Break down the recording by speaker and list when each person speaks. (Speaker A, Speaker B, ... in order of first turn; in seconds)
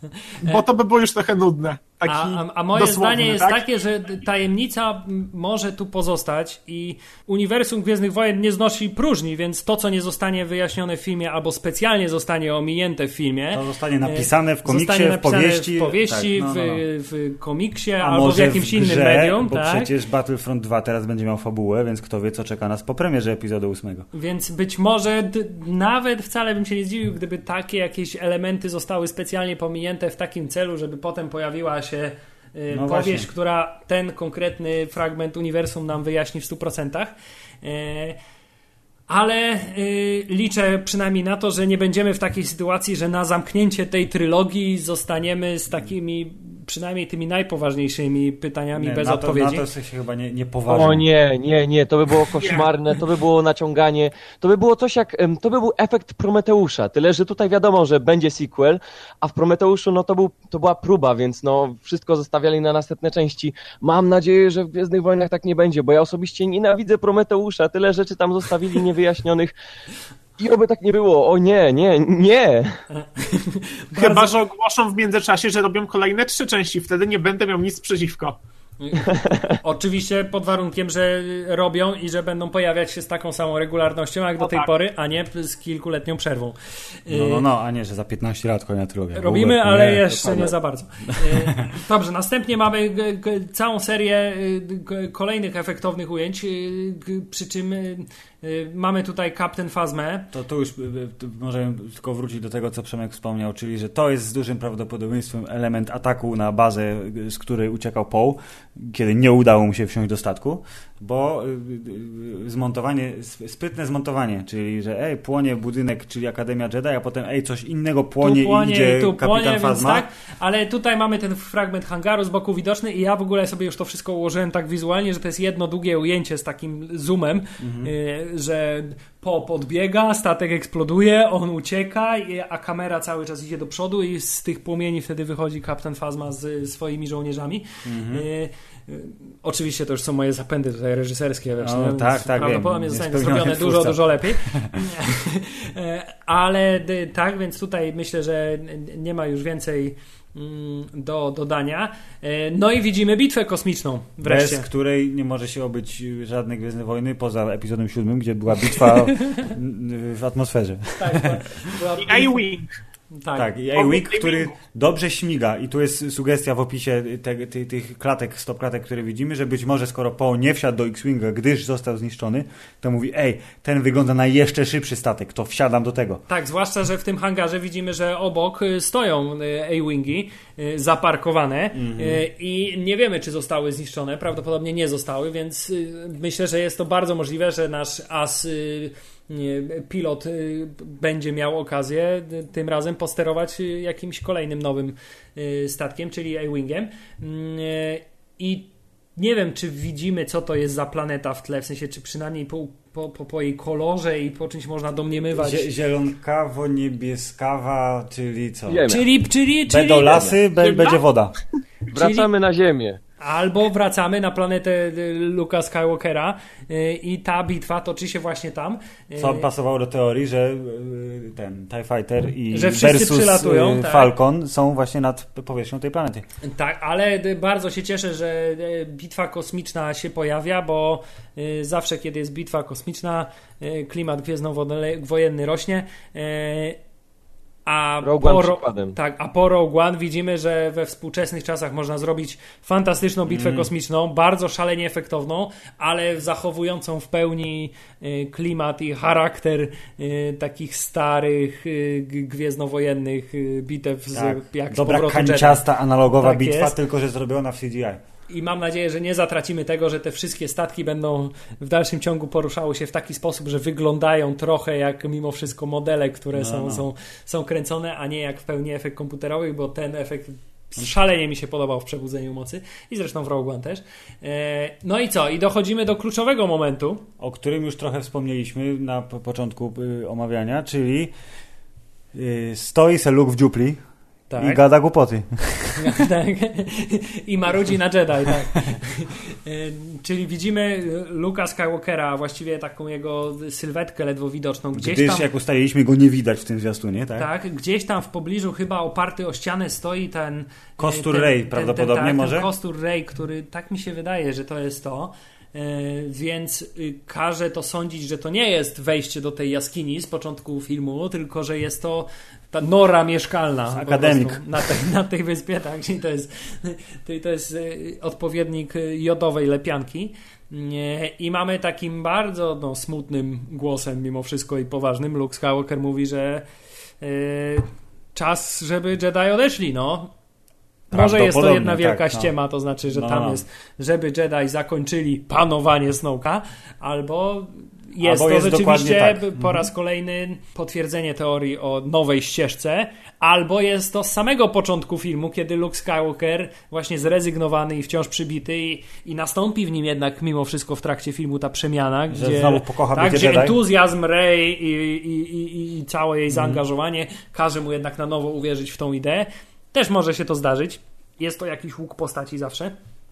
Speaker A: 0.2-0.6, 2.1-19.9, 24.1-38.2, 39.1-49.7, 72.9-74.3, 78.8-87.4, 89.2-100.3, 118.2-154.7, 159.1-159.5, 160.9-162.5, 163.1-163.5, 176.3-205.7, 208.9-210.3, 211.9-212.3, 213.2-219.5, 222.5-224.1, 226.4-236.8, 237.7-256.8, 258.3-277.1, 284.3-284.6, 285.8-295.3, 297.2-326.4, 327.0-330.1, 330.9-362.7
Speaker B: 0.4-3.6, 74.0-78.4, 84.4-84.7, 162.0-162.8, 163.8-164.5, 210.6-211.0
Speaker C: 13.5-16.8, 18.0-24.1, 32.7-33.3, 48.8-51.0, 87.1-90.5, 91.1-91.5, 100.3-120.1, 127.6-127.9, 137.8-138.2, 141.6-144.8, 154.2-161.4, 163.3-176.2, 181.7-182.2, 205.3-209.0, 209.7-211.3, 219.2-226.2, 243.3-243.7, 254.1-258.0, 266.3-266.9, 277.2-281.1, 282.1-283.8, 284.4-285.9, 294.8-297.3, 300.8-302.5, 313.7-314.4, 330.9-332.3, 332.9-333.4, 338.0-339.7, 352.1-353.6, 356.3-356.6
Speaker D: 50.7-69.5, 70.4-72.8, 90.2-90.5, 208.7-209.1, 211.9-213.0, 238.0-239.0